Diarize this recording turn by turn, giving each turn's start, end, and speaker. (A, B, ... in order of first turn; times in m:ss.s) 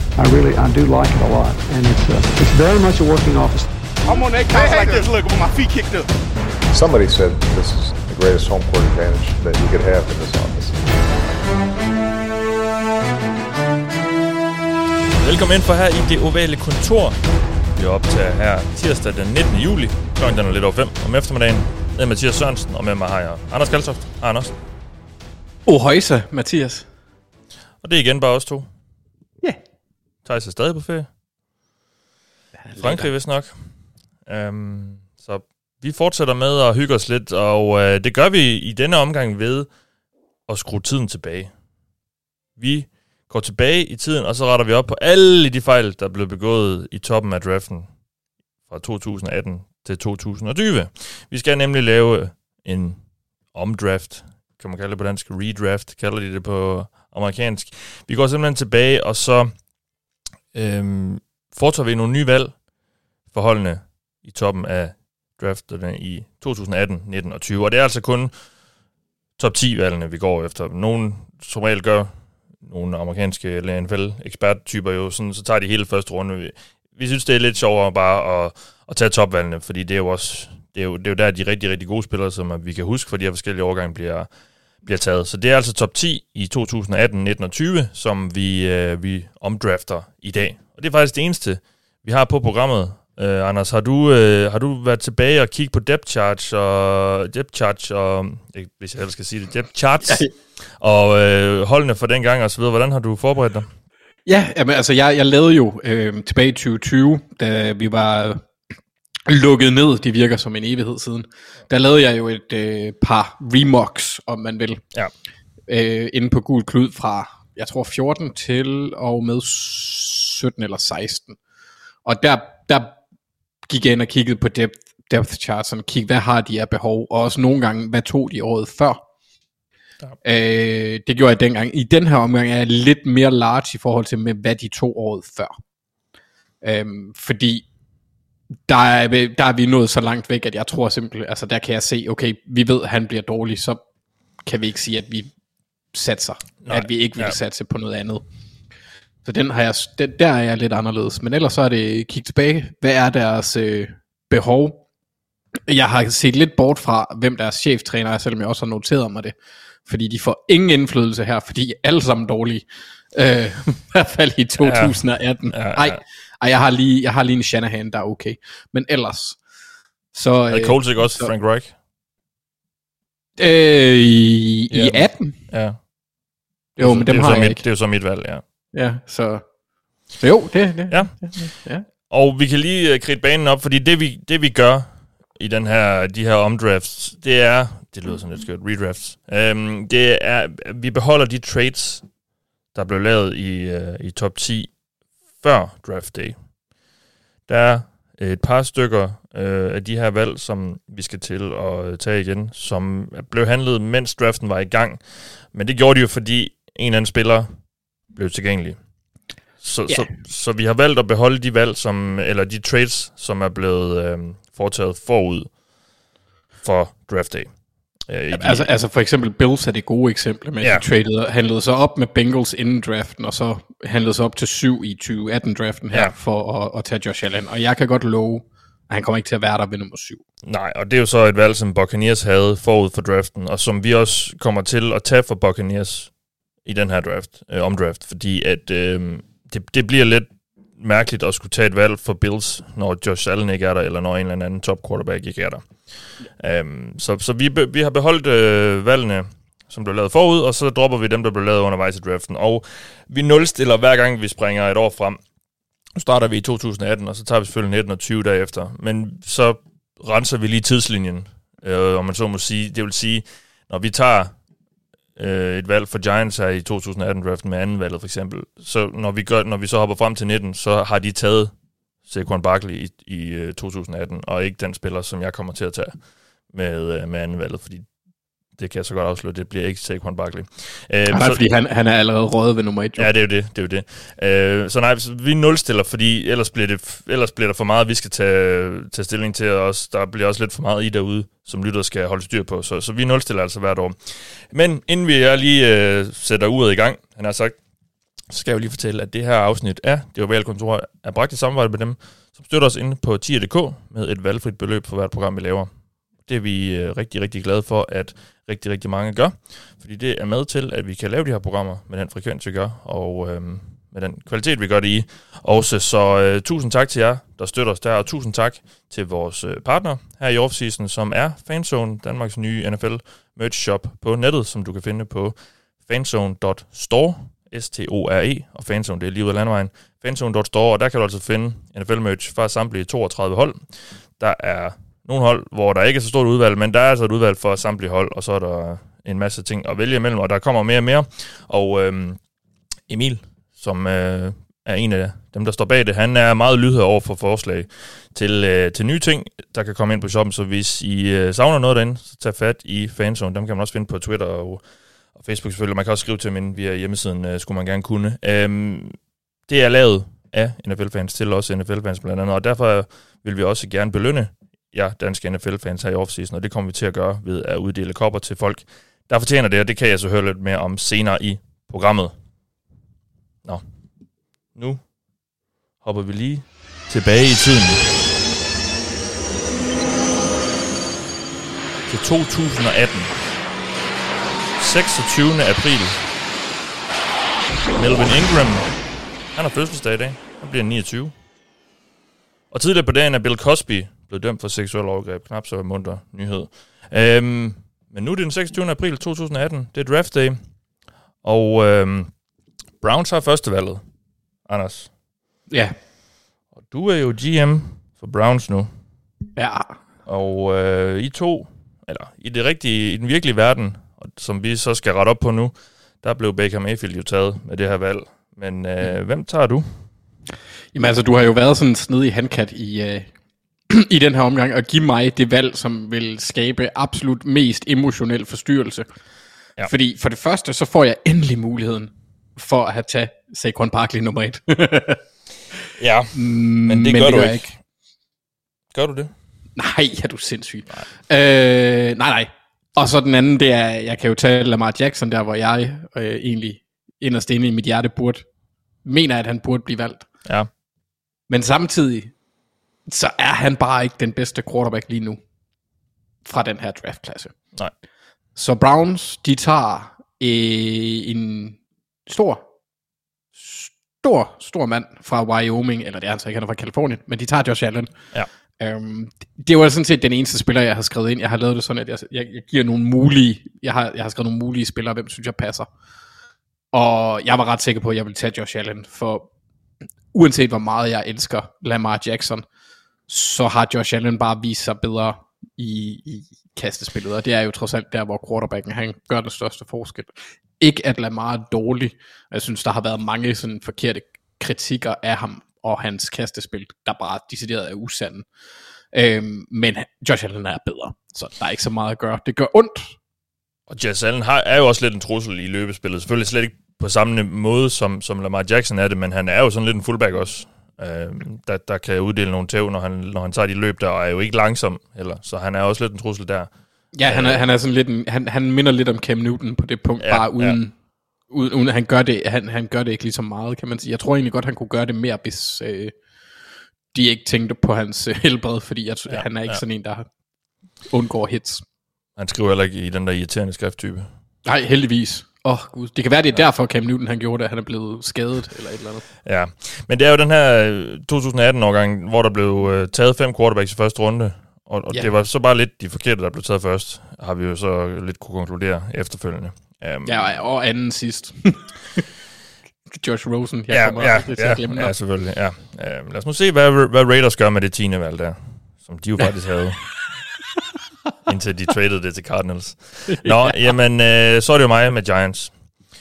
0:00.1-0:03.7 A
0:04.0-0:06.1 B
0:06.7-0:10.8 C
0:15.2-0:17.2 D
0:17.7-0:24.6 D
0:25.6-0:26.9 E
0:27.8-0:28.7 D
0:30.2-0:31.1 D
0:32.6-0:33.1 E
0:32.8-0:33.6 D
0:34.2-0:39.7 D
0:40.5-0:41.5 D
0:42.6-0:47.9 D
0:48.7-0:53.0 D
0:53.5-0:59.5 D
1:00.5-1:02.6 D
1:03.3-1:08.3 D
1:09.4-1:24.3 D
1:24.8-1:43.7 D
1:40.0-1:40.3 E
1:44.2-1:48.4 E
1:49.2-1:54.8 E
1:55.7-2:01.4 E
2:02.0-2:03.0 E
2:03.7-2:09.0 E
2:10.2-2:15.5 E
2:16.6-2:17.6 E
2:18.7-2:23.8 E
2:24.4-2:25.3 E
2:25.9-2:28.2 E
2:26.6-2:27.3 D
2:29.2-2:34.8 E
2:35.7-2:39.3 E
2:39.8-2:49.4 E
2:44.6-2:46.0 D
2:50.1-2:51.3 E
2:50.5-2:51.7 D
2:53.4-2:55.4 E
2:54.7-2:55.8 D
2:56.8-2:58.4 D
2:56.8-2:57.6 E
2:58.7-2:59.4 E
3:00.2-3:01.8 E
3:02.0-3:12.0 D
3:12.7-3:14.7 D
3:15.4-3:16.3 D
3:17.5-3:27.5 D
3:28.1-3:28.8 D
3:29.6-3:35.5 D
3:36.6-3:37.5 D
3:38.0-3:38.7 D
3:38.3-3:50.2 E
3:50.4-3:56.1 D
3:56.6-4:15.2 D
4:15.9-4:24.3 D
4:25.2-4:31.5 D
4:32.0-4:36.0 D
4:36.5-4:37.9 D
4:38.5-4:41.5 D
4:41.1-4:43.1 E
4:43.0-4:57.6 D
4:58.3-5:05.7 D
5:06.2-5:42.2 D
5:42.9-5:54.6 D
5:55.1-6:12.1 D
6:14.5-6:14.8 D
6:15.8-6:17.9 D
6:21.9-6:23.1 D
6:24.6-6:26.0 D
6:27.7-6:28.7 D
6:29.3-6:31.1 D
6:32.5-6:40.4 D
6:41.2-6:42.1 D
6:42.8-6:43.8 D
6:44.4-6:44.9 D
6:45.5-6:45.7 E
6:46.6-6:48.7 D
6:49.4-6:49.7 E
6:50.0-6:59.7 D
7:00.7-7:03.1 E
7:03.7-7:08.9 E
7:09.6-7:15.0 E
7:15.8-7:17.5 D
7:16.1-7:17.5 E
7:18.7-7:19.1 D
7:19.6-7:28.2 E
7:28.8-7:30.1 E
7:31.3-7:32.1 E
7:32.9-7:35.2 E
7:36.2-7:37.3 E
7:38.3-7:42.4 E
7:43.3-7:47.9 E
7:48.6-7:55.7 E
7:56.7-7:59.3 E
8:00.1-8:02.4 E
8:03.1-8:18.2 E
8:18.9-8:23.0 E
8:23.7-8:36.5 D
8:36.9-8:40.7 E
8:37.0-8:37.4 D
8:40.0-8:40.6 D
8:41.3-8:45.9 E
8:46.9-8:50.0 E
8:49.1-8:49.6 D
8:50.9-8:51.6 E
8:52.2-8:54.1 D
8:54.4-8:59.0 E
8:59.2-9:10.2 D
9:10.0-9:12.0 E
9:12.9-9:14.9 E
9:13.7-9:19.9 D
9:21.2-9:25.5 D
9:23.1-9:23.5 E